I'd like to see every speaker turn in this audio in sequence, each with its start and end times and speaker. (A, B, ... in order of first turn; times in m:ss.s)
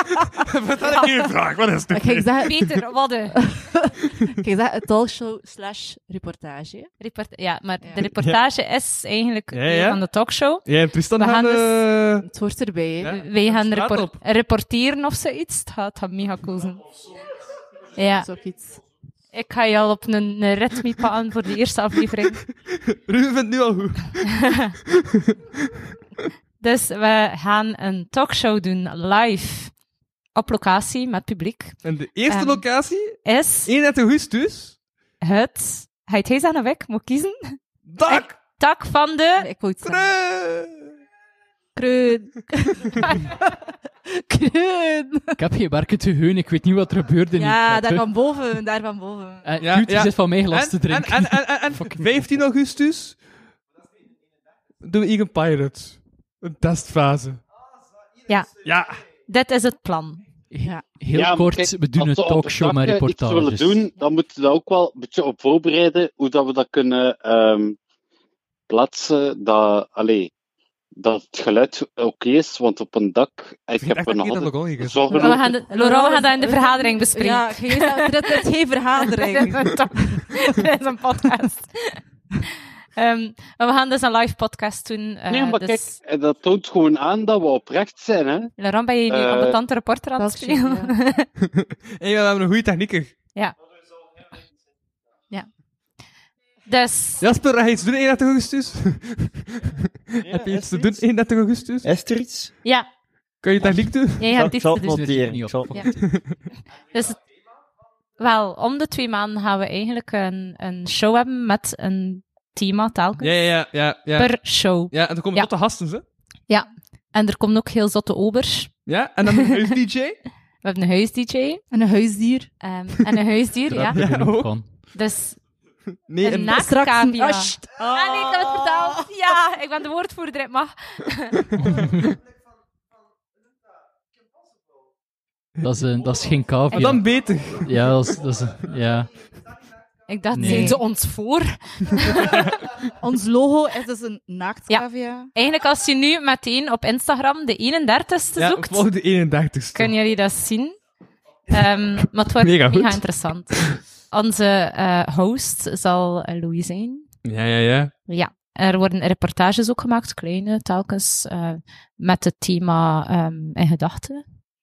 0:00.3-0:02.5 A
0:01.9-0:02.6 B
0:02.4-0:03.4 C
0:03.4-0:06.9 B
0:07.0-0:10.6 C
0:08.1-0:08.4 A
0:09.5-0:10.0 A
0:10.6-0:12.3 A
0:11.2-0:11.8 C
0:12.2-0:13.2 B
0:13.0-0:14.2 A
0:13.1-0:16.8 C
0:18.0-0:18.3 C
0:18.1-0:18.8 B
0:19.3-0:22.4 C
0:22.9-0:24.4 A
0:24.4-0:24.7 C
0:26.6-0:29.7 C
0:30.3-0:33.7 C
0:31.8-0:34.8 A
0:35.2-0:39.5 C
0:37.9-0:38.4 A
0:39.4-0:40.1 B
0:39.8-0:40.9 A
0:41.8-0:45.4 B
0:45.4-0:48.1 D
0:47.3-0:49.5 B
0:49.4-0:52.3 D
0:49.6-0:53.2 A
0:54.8-0:57.4 A
0:58.6-0:59.0 A
0:59.3-1:00.2 C
1:00.5-1:03.9 D
1:01.1-1:07.8 E
1:08.7-1:10.3 E
1:10.9-1:15.4 E
1:13.8-1:15.1 A
1:15.1-1:18.4 C
1:15.3-1:20.2 B
1:19.0-1:22.0 C
1:23.0-1:25.9 C
1:25.3-1:28.5 E
1:28.6-1:31.3 C
1:29.1-1:29.6 E
1:30.2-1:31.0 B
1:32.0-1:33.1 A
1:36.7-1:37.2 C
1:37.2-1:41.9 A
1:40.2-1:41.0 F
1:41.8-1:42.5 F
1:43.4-1:44.3 A
1:43.6-1:45.8 F
1:44.2-1:44.8 C
1:44.5-1:46.0 D
1:45.9-1:46.2 A
1:46.9-1:47.2 C
1:48.2-1:53.6 C
1:53.2-1:56.0 A
1:54.1-1:55.5 C
1:56.5-1:59.6 C
1:58.8-2:00.2 A
2:00.6-2:01.6 C
2:01.7-2:02.5 B
2:02.6-2:04.0 C
2:03.7-2:04.6 D
2:03.8-2:04.6 A
2:04.9-2:05.4 C
2:06.1-2:06.5 A
2:06.2-2:11.5 C
2:06.2-2:09.1 B
2:11.6-2:12.0 D
2:15.6-2:17.1 D
2:16.7-2:17.7 A
2:17.6-2:19.1 D
2:20.1-2:22.5 C
2:20.3-2:20.8 D
2:20.4-2:20.8 B
2:23.0-2:25.3 B
2:24.7-2:28.9 C
2:28.4-2:29.9 A
2:29.7-2:30.8 C
2:31.5-2:37.1 C
2:32.4-2:33.0 A
2:37.2-2:37.9 A
2:38.1-2:44.2 C